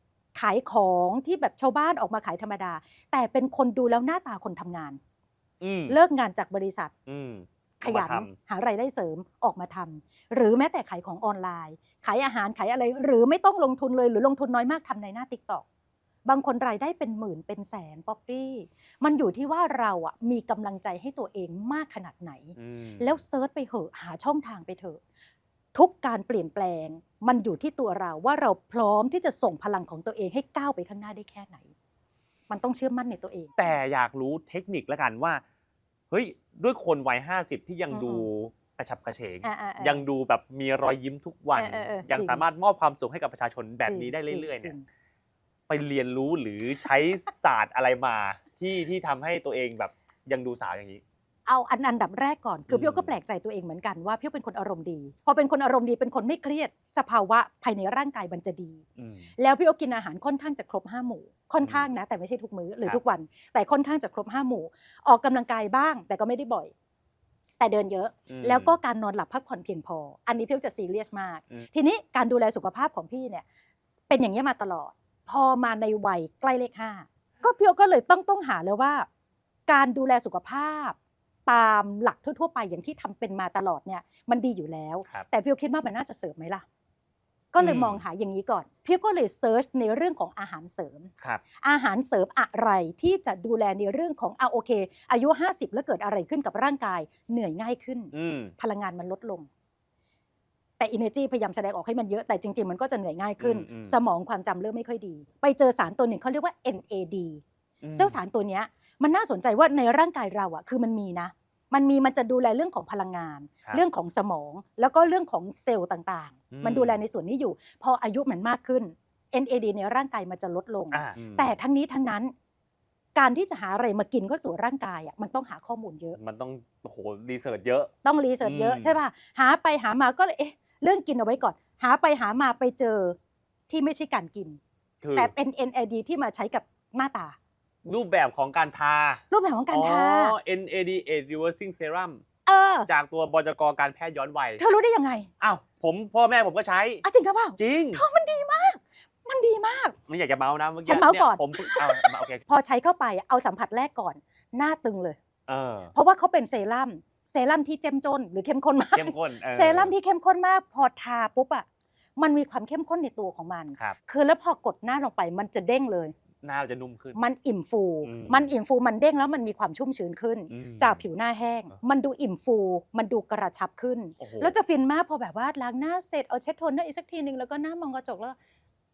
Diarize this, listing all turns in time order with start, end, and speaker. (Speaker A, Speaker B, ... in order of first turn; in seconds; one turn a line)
Speaker A: 0.3-5.0
Speaker B: 5.6-6.0
Speaker A: 5.9-6.9
Speaker B: 7.1-8.3
Speaker A: 7.8-15.7
Speaker A: 16.3-25.0
Speaker B: 22.6-23.2
Speaker A: 25.7-31.7
Speaker A: 32.5-33.6
Speaker B: 33.6-35.4
Speaker B: 36.1-44.7
Speaker A: 37.9-38.3
Speaker A: 39.4-40.1
Speaker A: 41.5-42.4
Speaker A: 43.9-44.9
Speaker B: 45.7-51.0
Speaker A: 51.5-58.8
Speaker B: 52.7-53.1
Speaker B: 59.0-59.3
Speaker A: 59.4-66.7
Speaker B: 61.6-61.9
Speaker A: 67.6-73.4
Speaker B: 68.3-68.8
Speaker A: 74.1-79.1
Speaker A: 79.7-86.7
Speaker A: 87.5-91.1
Speaker B: 87.6-88.0
Speaker A: 91.6-99.5
Speaker B: 98.1-98.5
Speaker A: 100.8-107.4
Speaker B: 103.4-103.9
Speaker B: 107.8-108.2
Speaker A: 108.0-122.3
Speaker B: 116.5-117.0
Speaker B: 120.9-121.5
Speaker A: 123.2-126.2
Speaker B: 126.2-127.9
Speaker A: 128.0-133.2
Speaker B: 128.4-129.0
Speaker A: 133.7-134.6
Speaker B: 135.0-135.3
Speaker A: 135.2-137.4
Speaker B: 137.8-142.2
Speaker A: 139.3-140.4
Speaker A: 142.5-142.9
Speaker B: 142.9-144.6
Speaker A: 144.6-145.3
Speaker B: 145.4-147.0
Speaker A: 147.0-150.0
Speaker B: 147.6-148.0
Speaker B: 150.1-152.4
Speaker A: 150.8-155.2
Speaker B: 155.5-155.9
Speaker A: 155.9-161.7
Speaker B: 158.9-159.9
Speaker A: 162.2-166.2
Speaker B: 166.4-167.2
Speaker A: 167.2-178.3
Speaker B: 168.0-168.5
Speaker B: 170.5-171.0
Speaker B: 174.2-174.5